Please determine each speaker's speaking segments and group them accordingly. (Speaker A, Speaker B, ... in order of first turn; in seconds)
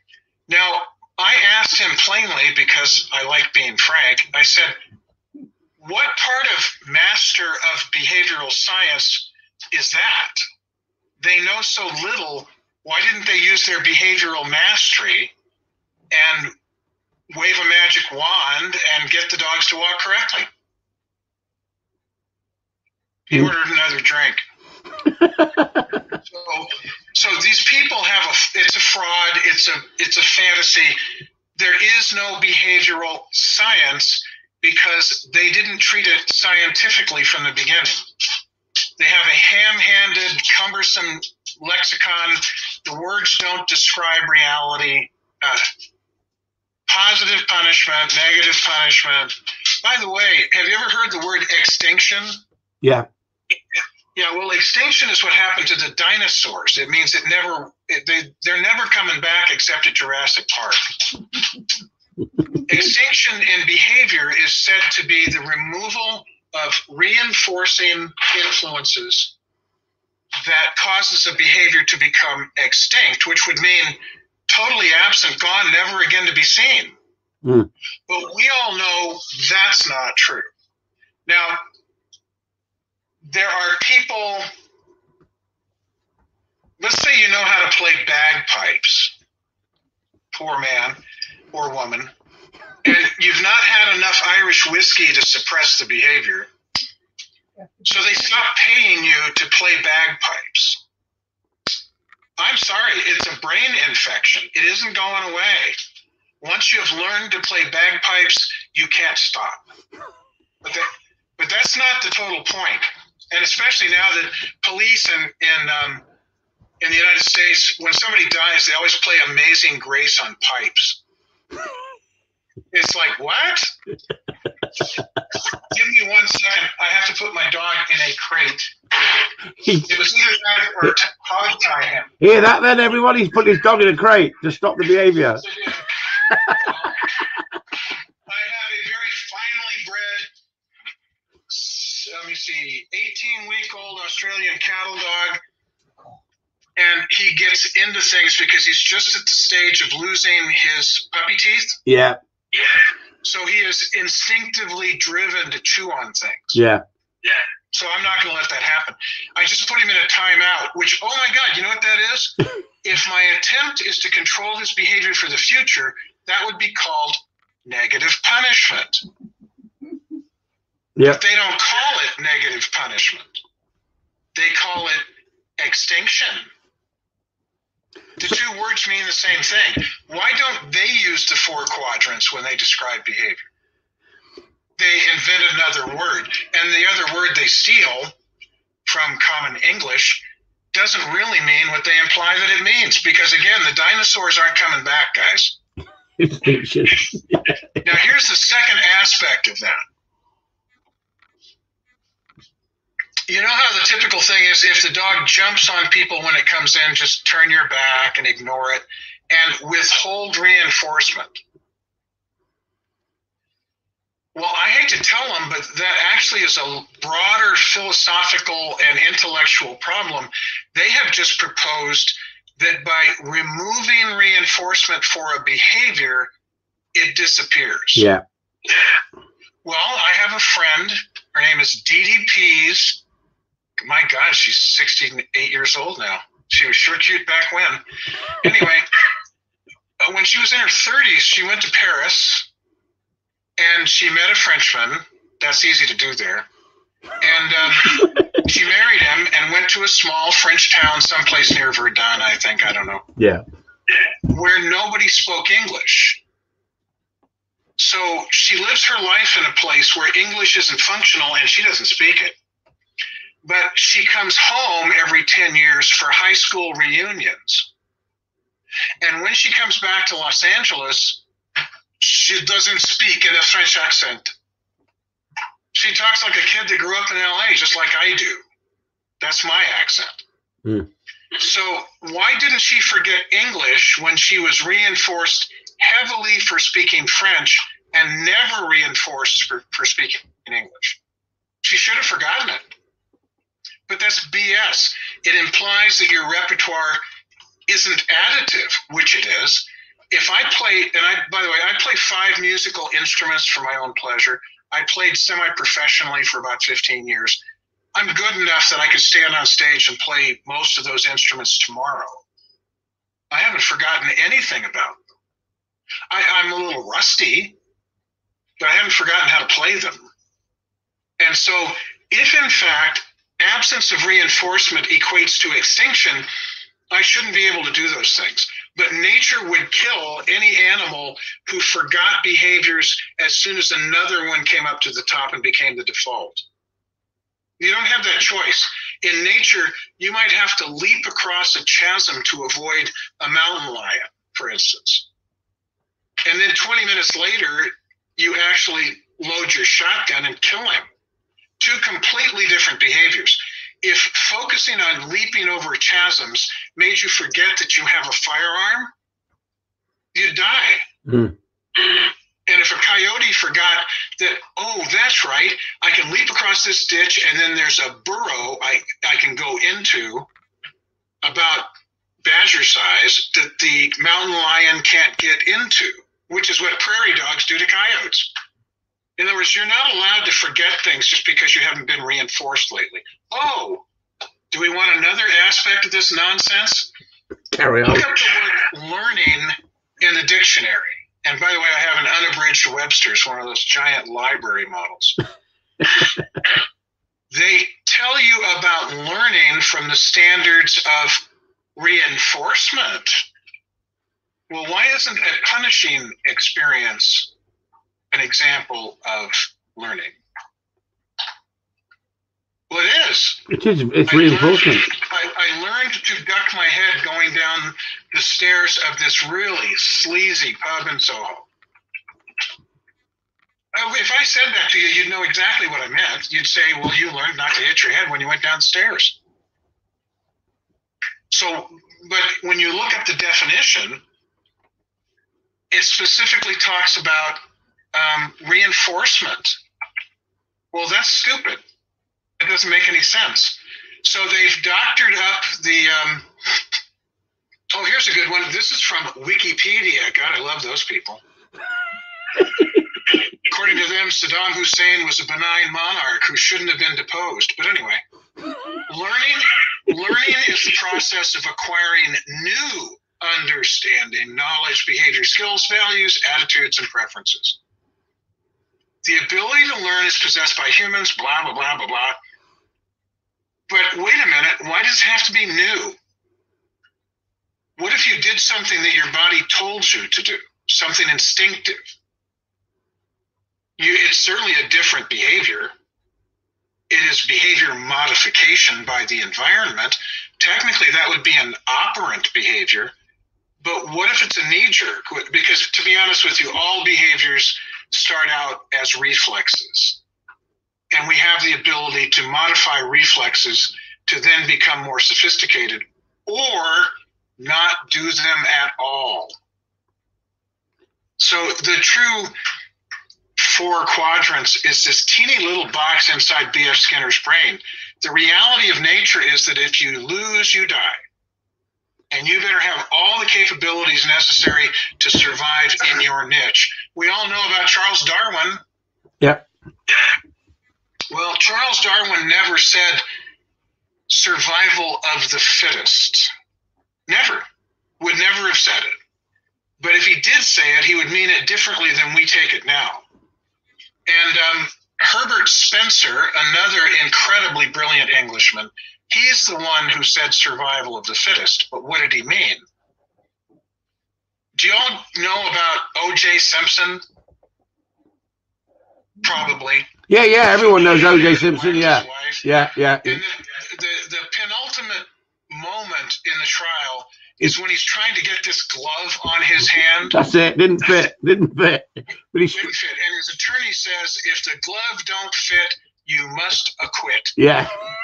Speaker A: 0.5-4.7, 5.8-10.4, 11.2-15.3, 16.1-16.5, 17.3-20.5, 23.3-24.4, 26.2-31.0, 31.5-38.0, 39.0-45.7, 46.9-52.4, 54.1-61.4, 62.6-69.3, 70.4-77.0, 78.1-80.5, 81.2-81.6, 83.2-84.5, 86.8-89.1, 90.3-91.0, 91.5-92.1, 92.8-96.5, 97.8-100.8, 102.4-105.8, 106.4-109.6, 110.6-116.0, 116.8-121.0, 122.7-123.7, 125.5-132.2, 135.4-137.1, 138.3-140.3, 141.5-145.4, 146.8-151.8, 152.7-156.6, 157.7-169.0, 171.0-173.4, 174.3-175.1, 175.6-176.5, 178.2-183.5, 184.8-188.1, 188.8-195.6, 197.8-199.8, 203.3-211.4, 214.3-226.3, 226.9-228.1, 229.6-233.0, 233.8-237.8, 238.4-238.9, 240.0-242.5, 243.6-246.5, 247.2-253.1, 254.2-256.2, 257.8-262.4, 263.4-267.7, 269.0-271.2, 272.0-274.3, 275.7-278.4, 279.2-280.2, 281.3-291.0, 291.6-292.6, 293.9-297.0, 297.7-307.4, 307.9-312.2, 313.3-315.0, 316.1-317.6, 318.6-320.1, 321.2-326.3, 326.9-336.4, 337.6-345.1, 346.2-350.9, 351.6-358.9, 360.1-360.9, 362.4-370.3, 371.2-371.7, 372.2-378.3, 379.2-383.8, 384.5-386.9, 387.8-395.2, 397.3-403.3, 404.5-407.3, 408.1-410.2, 412.7-413.5, 414.1-421.4, 423.7-429.2, 431.3-434.0, 435.7-437.4, 437.9-439.6, 440.7-441.6, 442.4-446.6, 447.7-451.2, 453.3-458.0, 458.9-467.6, 469.0-472.2, 473.7-476.0, 477.8-481.9, 483.8-485.7, 486.9-492.9, 493.6-500.0, 500.9-509.4, 511.2-512.3, 513.4-521.0, 522.1-528.6, 531.1-533.0, 534.1-536.3, 537.1-537.4, 538.0-539.0, 539.8-543.0, 544.1-552.6, 554.5-557.0, 559.2-559.9, 560.5-570.2, 572.5-577.4
Speaker B: 25.4-25.8, 77.4-77.7, 129.6-129.9, 132.2-135.4, 136.3-136.7, 151.8-152.2, 156.5-156.8, 196.2-197.8, 227.9-228.2, 253.2-253.4, 361.1-361.3, 387.5-388.1, 413.5-414.9, 560.1-563.2, 570.1-572.7, 577.4-577.7